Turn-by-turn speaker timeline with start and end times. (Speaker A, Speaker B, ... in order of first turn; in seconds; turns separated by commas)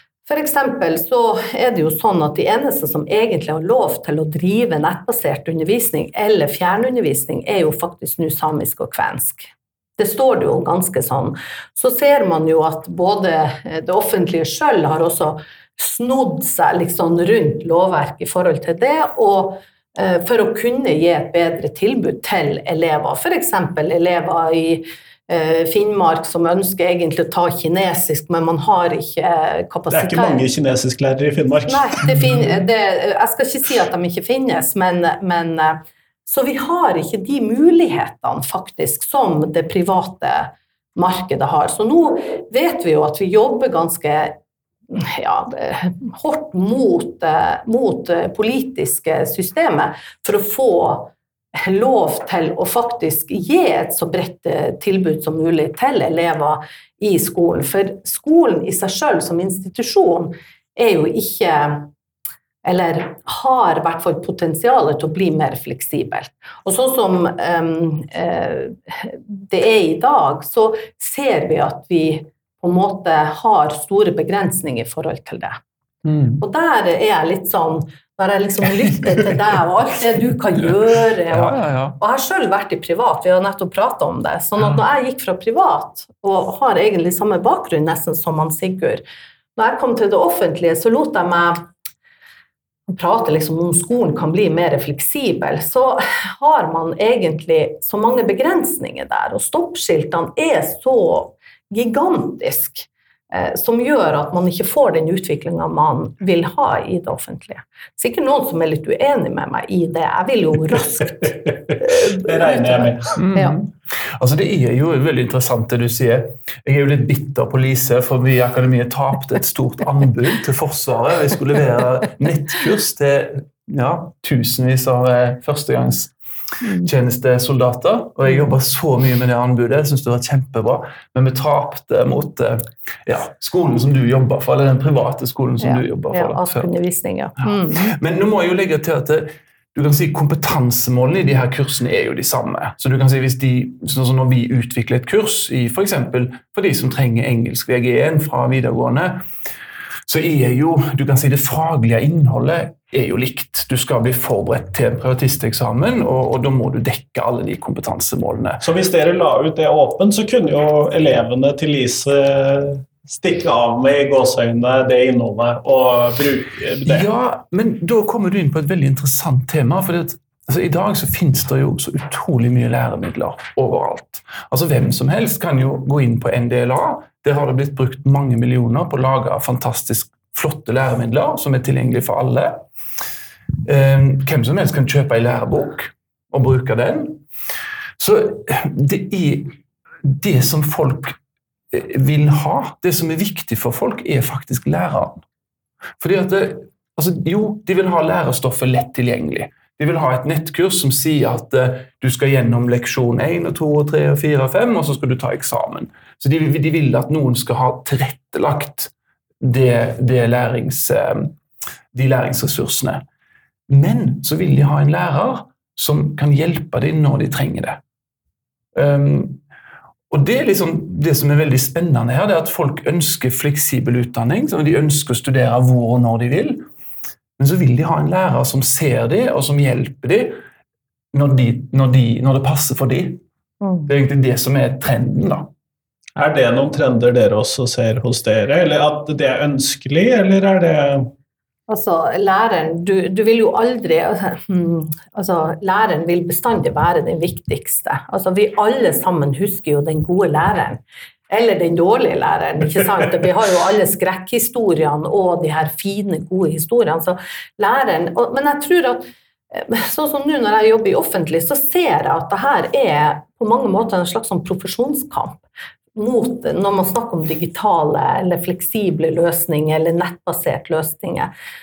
Speaker A: 0.2-30.4, Speaker B: 29.9-32.0, Speaker A: 31.7-44.4, Speaker A: 44.9-61.9, Speaker A: 62.6-75.6, Speaker C: 76.0-76.4, Speaker A: 76.4-89.0, Speaker C: 81.3-82.0, Speaker A: 89.5-91.6, Speaker A: 92.9-113.5, Speaker B: 112.1-113.1, Speaker C: 113.2-126.1, Speaker C: 126.8-136.7, Speaker A: 135.6-137.9, Speaker C: 137.4-149.2, Speaker C: 150.1-158.6, Speaker B: 158.6-167.1, Speaker C: 166.8-182.6, Speaker C: 183.6-187.2, Speaker C: 188.0-191.2, Speaker C: 191.7-195.2, Speaker C: 196.0-211.3, Speaker C: 211.9-213.0, Speaker C: 213.7-217.8, Speaker C: 218.7-219.4, Speaker C: 220.1-226.6, Speaker C: 227.4-230.4, Speaker C: 231.1-233.2, Speaker A: 233.6-233.9, Speaker C: 233.9-235.5, Speaker B: 236.2-241.1, Speaker A: 241.7-265.4, Speaker A: 265.9-271.3